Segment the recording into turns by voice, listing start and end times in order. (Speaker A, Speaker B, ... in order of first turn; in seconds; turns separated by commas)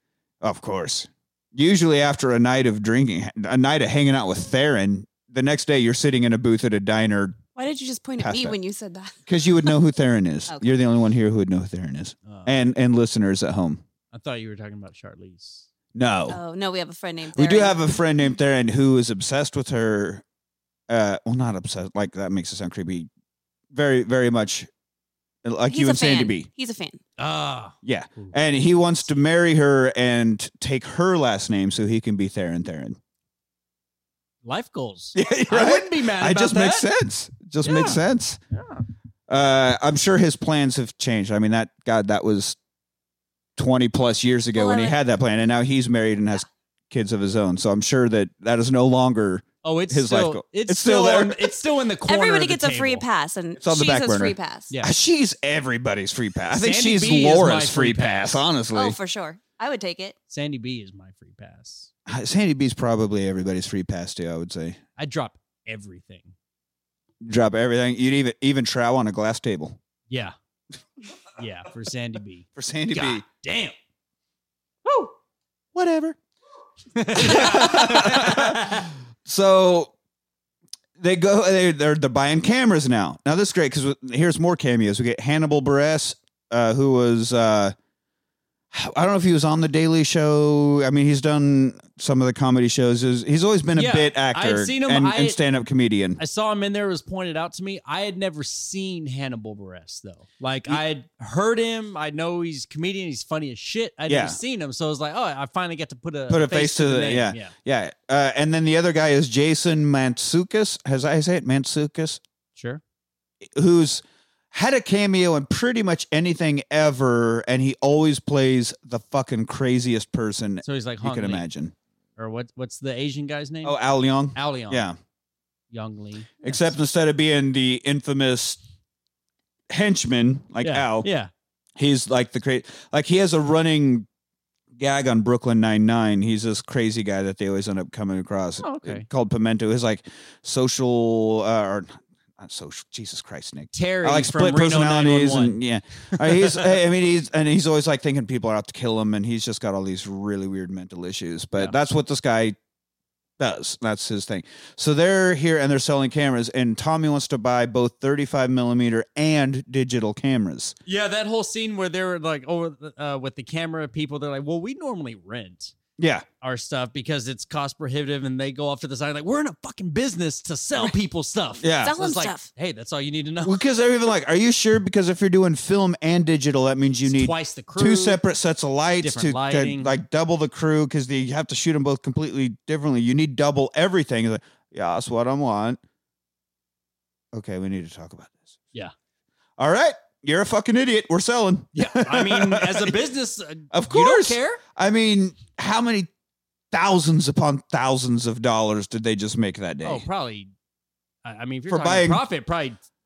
Speaker A: 0.4-7.4, Speaker B: 7.5-9.7, Speaker A: 8.2-8.6, Speaker A: 9.2-13.8, Speaker B: 10.5-10.7, Speaker C: 12.2-12.5, Speaker C: 14.1-15.7, Speaker A: 15.9-16.4, Speaker B: 16.3-17.8, Speaker A: 17.3-20.2, Speaker A: 20.9-23.1, Speaker A: 23.7-24.7, Speaker A: 25.4-26.5, Speaker B: 25.7-27.0, Speaker C: 27.2-28.3, Speaker A: 27.8-33.0, Speaker C: 34.4-36.9, Speaker A: 35.1-38.4, Speaker C: 37.6-38.8, Speaker A: 39.3-42.6, Speaker A: 43.5-51.5, Speaker B: 44.5-45.0, Speaker C: 49.6-53.0, Speaker B: 52.0-54.7, Speaker A: 53.6-59.0, Speaker C: 56.5-58.4, Speaker B: 58.7-60.1, Speaker C: 60.3-61.9, Speaker A: 62.1-64.8, Speaker C: 65.0-66.3, Speaker A: 67.2-69.8, Speaker C: 70.1-70.3, Speaker C: 71.4-73.7, Speaker A: 72.5-73.2, Speaker C: 74.8-75.1, Speaker A: 75.7-76.2, Speaker C: 76.9-78.9, Speaker A: 77.1-79.9, Speaker A: 81.0-87.7, Speaker A: 88.7-96.2, Speaker C: 93.8-95.4, Speaker C: 96.2-107.5, Speaker A: 104.1-104.4, Speaker A: 106.3-112.2, Speaker A: 113.5-121.7, Speaker C: 120.6-121.4, Speaker C: 122.2-123.8, Speaker A: 123.6-125.0, Speaker C: 124.3-124.8, Speaker C: 125.7-126.7, Speaker A: 126.4-128.6, Speaker A: 129.7-131.1, Speaker C: 130.6-131.3, Speaker A: 131.8-134.1, Speaker A: 134.8-152.6, Speaker C: 138.6-139.1, Speaker C: 143.7-145.6, Speaker C: 146.4-146.7, Speaker A: 153.4-160.7, Speaker C: 160.8-165.7, Speaker A: 166.0-166.2, Speaker C: 166.4-173.6, Speaker A: 171.6-171.9, Speaker B: 171.7-172.5, Speaker A: 173.4-185.8, Speaker C: 177.1-178.2, Speaker C: 179.0-179.9, Speaker A: 187.3-188.6, Speaker A: 189.6-192.9, Speaker C: 191.7-194.6, Speaker A: 193.7-196.1, Speaker A: 196.7-200.0, Speaker C: 199.8-200.5, Speaker C: 201.2-202.8, Speaker A: 201.7-202.2